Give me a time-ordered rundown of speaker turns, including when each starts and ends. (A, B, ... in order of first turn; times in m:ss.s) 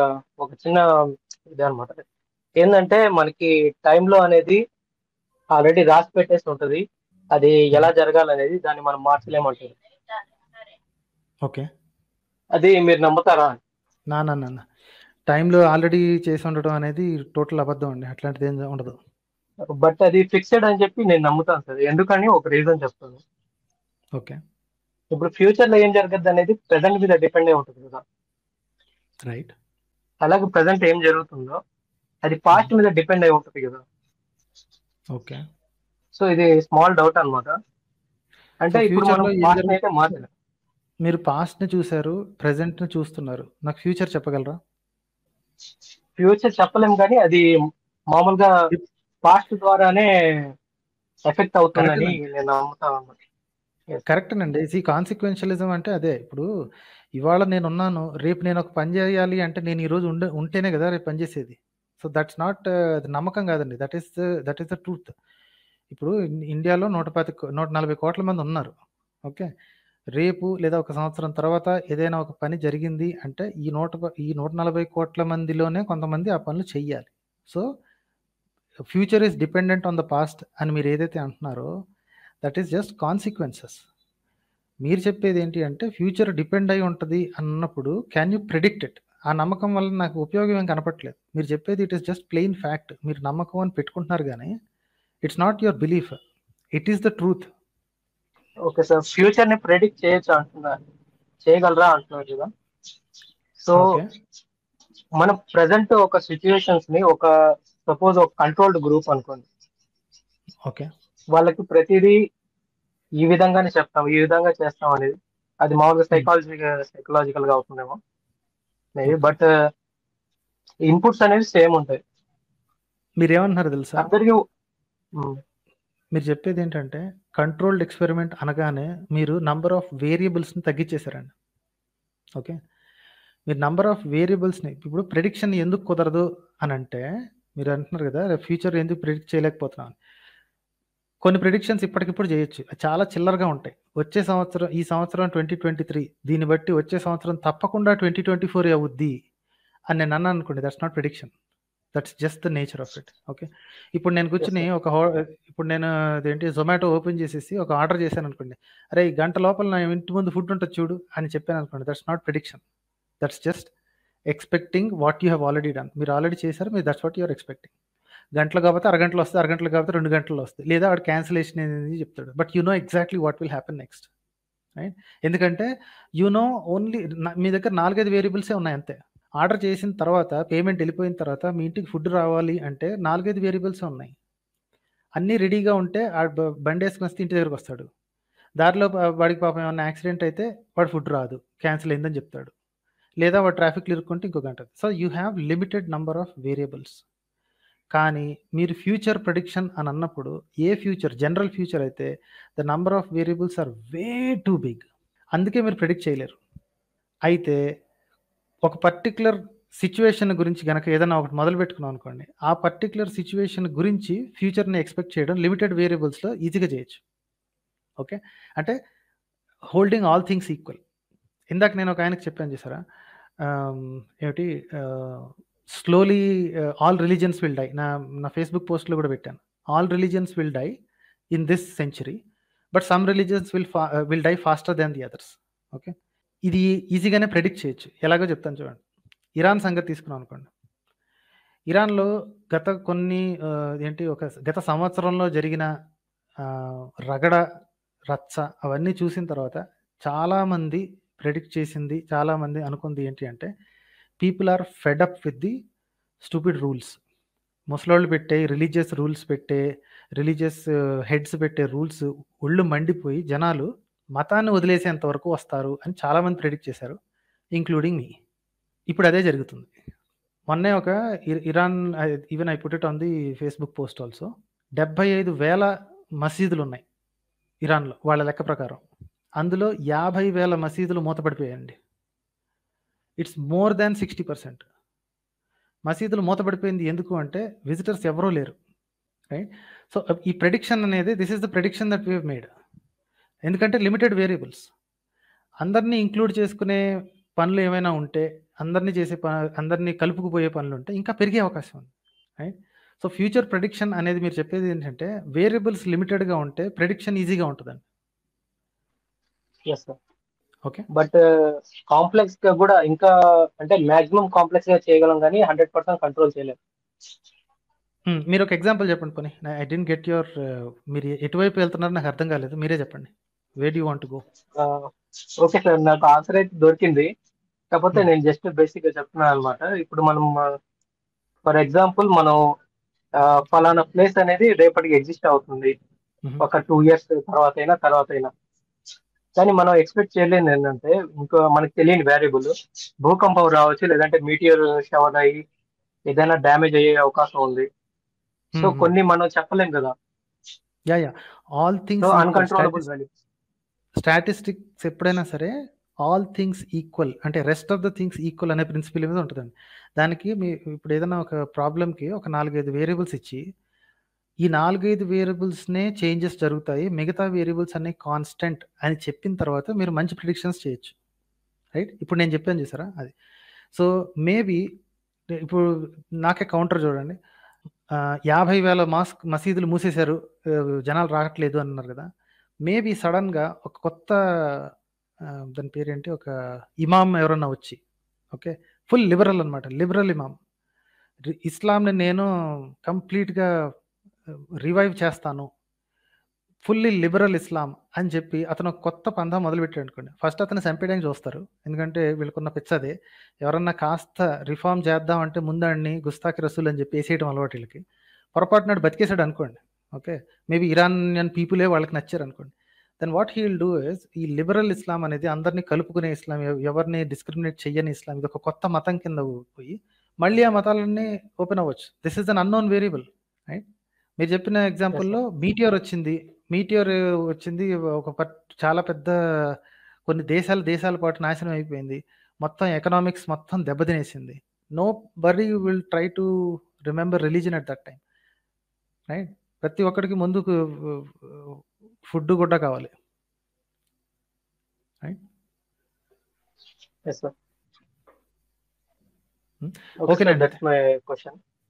0:00.4-0:00.8 A
0:01.5-0:02.0 A
0:02.6-0:04.6 A
0:05.6-0:06.8 A
0:07.3-0:09.8 A
0:12.6-0:13.6 A
0:14.1-0:14.6 B
0:15.3-0:19.0 B
0:19.8-0:23.2 A
0:25.1-0:28.0 A
0:29.2-0:29.5 B
0:30.2-0:31.6 A
0:32.2-0:33.8 A
0:35.2-0:35.4 B
0:36.2-0:37.5 A
0:38.6-0:40.3 A
0:38.7-0:39.8 B
0:41.0-0:44.6 B
0:46.2-0:47.4 A
0:48.1-0:48.5 A
0:49.2-0:50.1 A
0:51.3-0:53.2 A
0:51.8-0:52.2 B
0:54.1-0:56.5 B
0:57.2-1:05.1 B
1:05.9-1:08.7 B
1:10.2-1:17.6 B
1:18.9-1:21.7 B
1:22.4-1:23.8 B
1:24.8-1:34.5 B
1:35.2-1:36.2 B
1:36.8-1:37.5 B
1:38.7-1:40.8 A
1:41.4-1:42.5 A
1:43.6-1:44.0 A
1:43.8-1:44.0 B
1:45.2-1:47.3 A
1:47.8-1:49.5 A
1:51.3-1:52.2 A
1:53.2-1:58.0 A
1:59.0-1:59.5 A
1:59.1-1:59.3 B
2:00.9-2:02.0 A
2:03.2-2:04.1 B
2:04.0-2:04.4 A
2:06.1-2:11.3 B
2:13.5-2:17.0 B
2:17.6-2:20.0 B
2:21.2-2:29.1 B
2:29.9-2:31.3 B
2:31.9-2:42.6 B
2:34.4-2:34.7 A
2:43.2-2:43.7 B
2:44.3-2:47.7 B
2:48.4-2:54.1 B
2:54.8-2:55.7 B
2:56.2-3:04.1 B
3:05.2-3:07.9 B
3:08.6-3:12.5 B
3:13.2-3:17.0 B
3:17.9-3:26.4 B
3:27.3-3:27.6 B
3:28.7-3:37.0 B
3:38.0-3:38.8 B
3:39.7-3:40.8 B
3:41.5-3:42.8 B
3:43.4-3:50.7 B
3:51.3-3:52.2 B
3:52.8-3:55.9 B
3:56.5-3:58.8 B
3:59.4-4:00.5 B
4:01.7-4:05.7 B
4:06.4-4:07.4 B
4:08.1-4:13.5 B
4:14.2-4:15.6 B
4:16.2-4:17.0 B
4:17.7-4:19.6 B
4:20.2-4:27.0 B
4:27.6-4:28.1 B
4:28.9-4:29.7 B
4:30.5-4:35.7 B
4:36.2-4:36.8 B
4:37.7-4:38.8 B
4:39.4-4:41.8 B
4:43.2-4:44.6 B
4:45.9-4:48.6 B
4:49.3-4:52.5 B
4:53.5-4:54.7 B
4:55.6-4:56.8 B
4:57.4-5:07.8 B
5:09.7-5:10.0 A
5:10.9-5:11.2 A
5:11.9-5:16.6 A
5:18.1-5:20.3 B
5:20.9-5:24.2 B
5:24.6-5:24.9 A
5:25.4-5:27.1 A
5:27.7-5:30.3 A
5:31.5-5:32.4 A
5:33.2-5:35.7 A
5:36.4-5:38.3 A
5:39.4-5:42.5 A
5:43.0-5:45.4 A
5:46.1-5:47.7 A
5:48.6-5:48.9 B
5:48.6-5:49.9 A
5:50.9-5:52.8 B
5:52.0-5:53.1 A
5:54.0-5:55.5 B
5:56.0-6:03.4 B
6:04.4-6:10.9 B
6:11.8-6:13.1 B
6:13.7-6:14.6 B
6:15.4-6:17.2 B
6:17.9-6:22.1 B
6:22.7-6:24.7 B
6:25.2-6:26.3 B
6:26.8-6:27.8 B
6:28.3-6:30.3 B
6:31.3-6:32.3 B
6:32.8-6:33.5 B
6:34.3-6:35.5 B
6:36.6-6:47.8 B
6:48.4-7:03.6 B
7:04.2-7:09.2 B
7:04.9-7:05.2 A
7:10.1-7:18.0 B
7:19.1-7:22.9 B
7:27.1-7:27.3 A
7:29.6-7:30.6 B
7:30.0-7:31.4 A